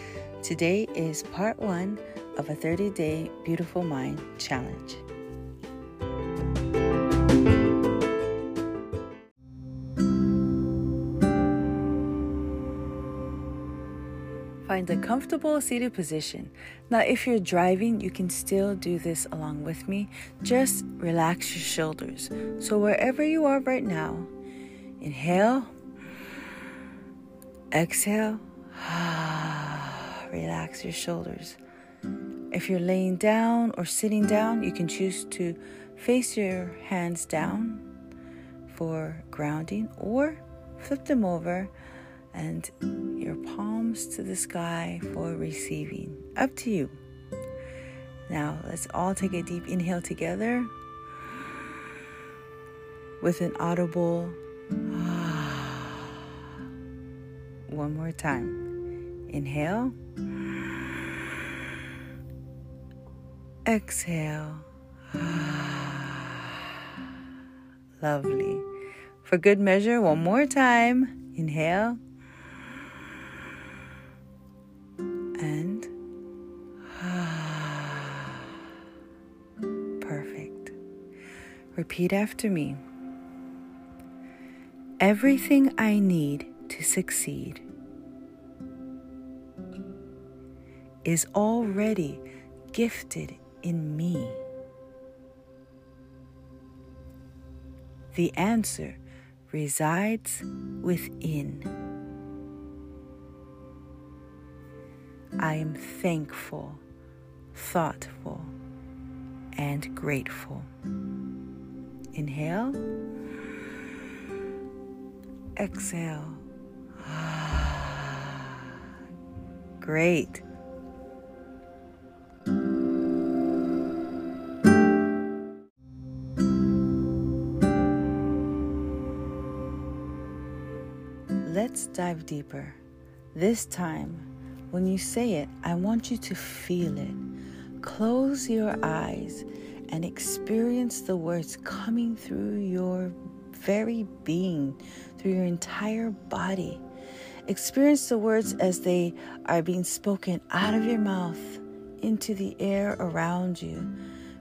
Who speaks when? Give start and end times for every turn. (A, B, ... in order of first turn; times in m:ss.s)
0:00.4-0:05.0 A
0:14.6-0:24.3 A
0:25.0-0:25.7 A
0:27.7-0:31.6 A
0:32.5-0:37.8 A
0:38.7-0:41.7 A
0:42.3-0:47.0 A
0:48.3-0:50.7 A
0:53.2-0:54.4 A
0:54.9-0:56.2 A
0:57.7-0:58.6 A
0:59.3-1:00.0 A
1:03.7-1:06.7 A
1:08.0-1:08.7 A
1:09.2-1:12.0 A
1:15.4-1:15.9 A
1:16.9-1:18.4 A
1:20.0-1:20.8 A
1:21.7-1:22.8 A
1:25.0-1:27.6 A
1:31.0-1:34.4 A
1:38.1-1:41.7 A
1:45.4-1:46.8 A
1:47.5-1:48.6 A
1:49.6-1:50.7 A
1:52.1-1:52.8 A
1:55.6-1:56.4 A
1:57.0-1:58.8 A
1:59.8-2:00.4 A
2:11.4-2:12.8 A
2:13.3-2:17.2 A
2:17.8-2:26.8 A
2:27.5-2:33.9 A